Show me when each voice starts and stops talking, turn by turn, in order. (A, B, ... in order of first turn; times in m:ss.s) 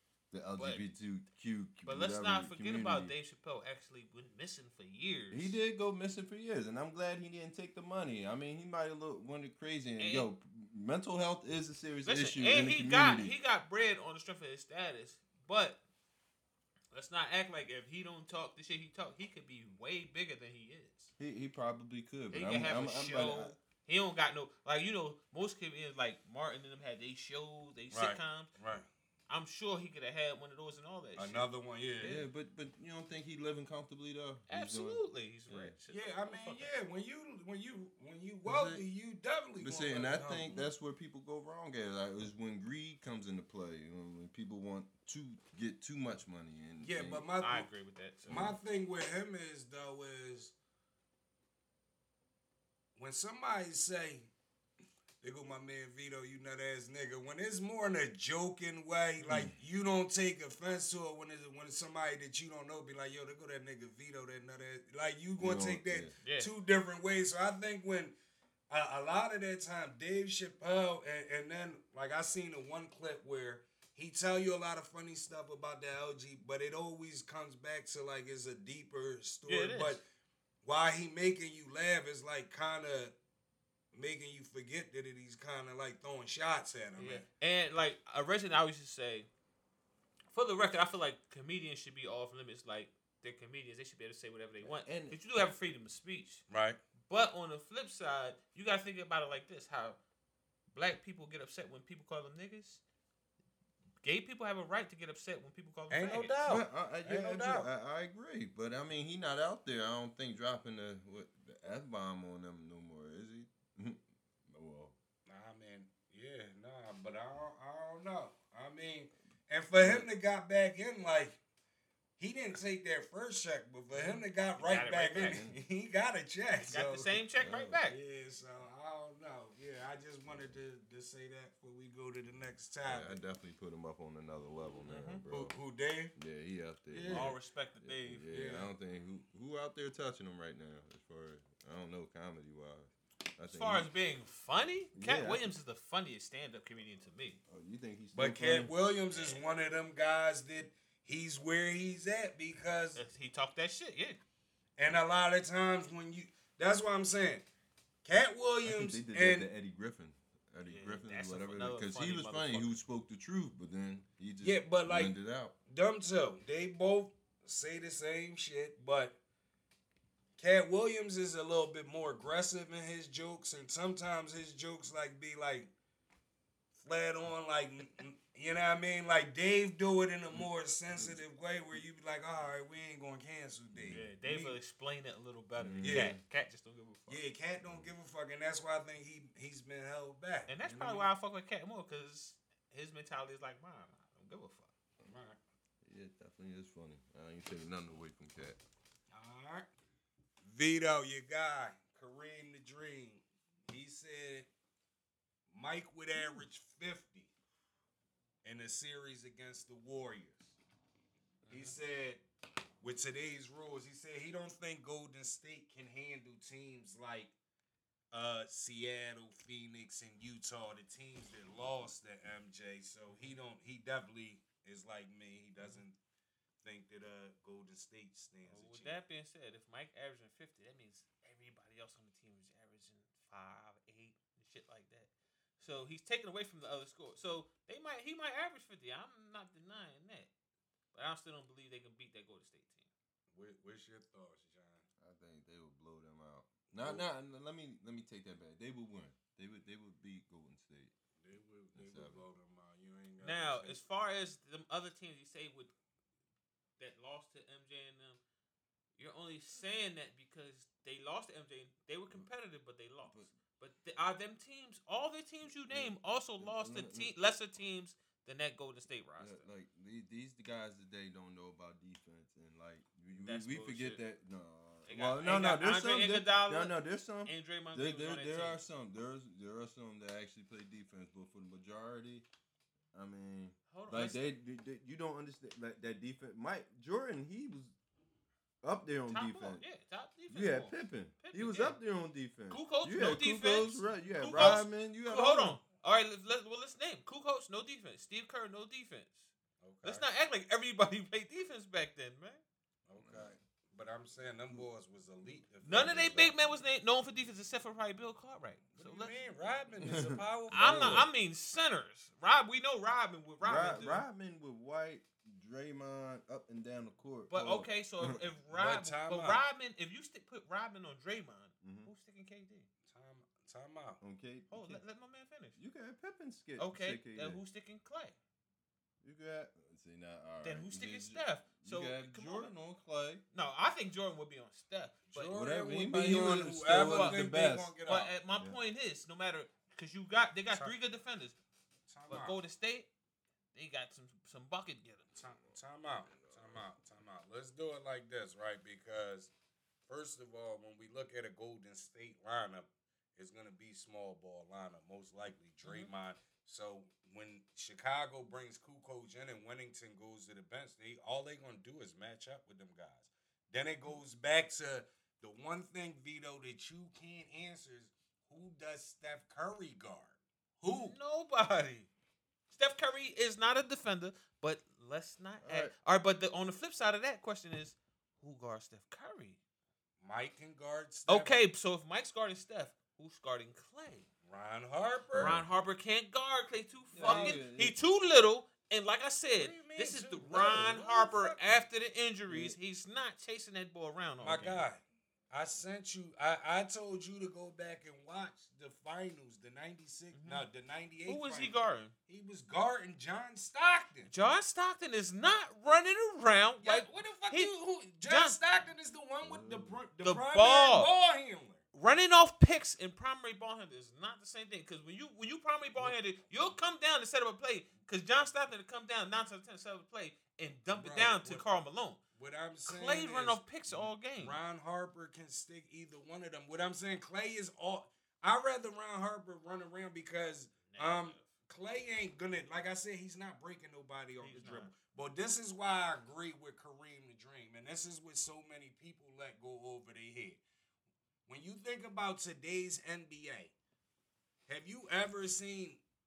0:00.3-0:03.1 A
0:00.6-0:00.8 B
0:01.8-0:05.6 B
0:05.3-0:13.3 A
0:10.0-0:10.3 B
0:12.0-0:15.8 B
0:16.9-0:21.1 B
0:21.2-0:23.6 A
0:22.3-0:28.5 B
0:27.9-0:28.9 C
0:29.3-0:31.5 B
0:31.2-0:32.2 C
0:32.0-0:35.7 A
0:34.5-0:36.7 B
0:35.9-0:40.7 C
0:38.4-0:38.8 A
0:39.6-0:47.2 A
0:46.8-0:47.7 C
0:47.4-0:48.5 B
0:48.3-0:50.5 C
0:48.3-0:48.6 A
0:53.0-0:54.3 C
0:55.2-1:08.1 C
0:59.3-0:59.6 A
1:05.4-1:06.1 A
1:06.2-1:06.5 B
1:08.7-1:20.0 C
1:19.4-1:20.0 B
1:20.6-1:23.1 C
1:23.9-1:27.2 C
1:27.0-1:29.3 B
1:30.3-1:36.4 B
1:34.6-1:35.2 A
1:36.5-1:36.8 C
1:37.1-1:40.0 B
1:40.7-1:42.8 B
1:44.0-1:46.3 B
1:45.9-1:47.7 C
1:46.4-1:54.9 A
1:55.2-2:01.4 C
1:59.8-2:00.1 A
2:02.2-2:07.2 C
2:03.9-2:05.4 B
2:05.1-2:05.6 A
2:06.7-2:08.0 B
2:07.4-2:07.8 A
2:07.8-2:13.2 C
2:10.3-2:10.6 A
2:12.8-2:15.6 A
2:14.9-2:15.2 B
2:15.3-2:16.1 C
2:16.1-2:23.9 A
2:16.9-2:18.2 B
2:17.0-2:17.3 C
2:18.3-2:18.7 C
2:23.5-2:27.4 B
2:24.9-2:25.5 A
2:27.5-2:28.7 A
2:28.1-2:33.0 C
2:29.1-2:29.4 B
2:33.0-2:34.2 B
2:34.8-2:37.4 C
2:38.0-2:39.5 C
2:38.6-2:45.5 A
2:40.6-2:42.8 B
2:44.4-2:45.1 C
2:45.7-2:49.2 C
2:50.4-2:55.7 C
2:56.8-3:04.6 C
3:00.3-3:01.2 A
3:03.7-3:04.1 A
3:03.9-3:07.2 B
3:05.6-3:06.2 A
3:05.8-3:06.1 C
3:07.1-3:11.1 C
3:07.6-3:07.9 A
3:10.5-3:14.7 B
3:15.0-3:15.4 C
3:15.8-3:18.6 A
3:19.1-3:19.7 C
3:20.4-3:24.5 C
3:25.5-3:27.3 C
3:28.4-3:30.6 C
3:31.4-3:31.8 B
3:31.5-3:32.2 C
3:32.8-3:37.3 C
3:38.1-3:46.0 C
3:43.1-3:43.3 B
3:46.6-3:49.0 C
3:48.4-4:00.3 B
4:00.9-4:02.9 B
4:03.3-4:04.8 C
4:05.0-4:10.9 A
4:06.7-4:07.0 C
4:11.2-4:13.8 C
4:11.7-4:12.2 A
4:13.2-4:15.7 B
4:16.8-4:18.2 B
4:19.0-4:29.4 B
4:25.7-4:27.1 A
4:29.2-4:42.2 A
4:33.2-4:34.0 B
4:34.9-4:38.6 B
4:42.9-4:47.7 A
4:43.7-4:44.2 B
4:48.6-4:49.6 A
4:49.1-4:51.8 B
4:50.3-4:55.6 A
4:52.5-4:59.3 B
4:59.6-5:00.0 C
4:59.8-5:02.4 B
5:02.9-5:06.3 C
5:03.0-5:03.4 A
5:05.6-5:09.2 B
5:08.8-5:11.0 C
5:09.8-5:11.1 A
5:10.5-5:14.0 B
5:13.4-5:18.2 A
5:17.3-5:22.7 B
5:18.5-5:19.4 C
5:21.6-5:21.9 A
5:22.9-5:24.0 C
5:24.0-5:24.8 A
5:24.5-5:25.6 B
5:25.6-5:27.4 A
5:26.6-5:28.2 B
5:29.0-5:33.2 A
5:30.4-5:32.5 B
5:33.3-5:35.3 B
5:35.1-5:38.1 C
5:35.3-5:37.7 A
5:36.0-5:37.2 B
5:37.8-5:41.4 B
5:41.9-5:42.4 C
5:42.1-5:42.9 B
5:43.5-5:45.1 B
5:45.2-5:49.3 C
5:46.1-5:46.6 A
5:49.9-6:11.0 C
5:55.6-5:55.9 B
6:10.6-6:11.9 B
6:12.5-6:19.4 B
6:15.4-6:15.7 A
6:20.0-6:21.3 C
6:21.1-6:24.1 B
6:24.2-6:25.4 C
6:25.1-6:25.4 A
6:25.2-6:34.6 B
6:26.9-6:27.8 A
6:27.0-6:27.4 C
6:29.4-6:31.6 C
6:32.3-6:32.6 A
6:34.2-6:44.1 C
6:40.1-6:40.4 B
6:41.1-6:41.9 B
6:44.1-6:47.5 B
6:46.6-6:51.6 C
6:48.0-6:48.4 B
6:49.2-6:49.8 A
6:50.0-6:50.9 B
6:51.7-7:02.0 B
7:00.7-7:01.5 C
7:02.1-7:03.4 C
7:02.6-7:04.4 B
7:04.1-7:20.4 C
7:10.7-7:11.2 B
7:14.2-7:14.7 B
7:21.3-7:23.5 C
7:24.5-7:25.8 C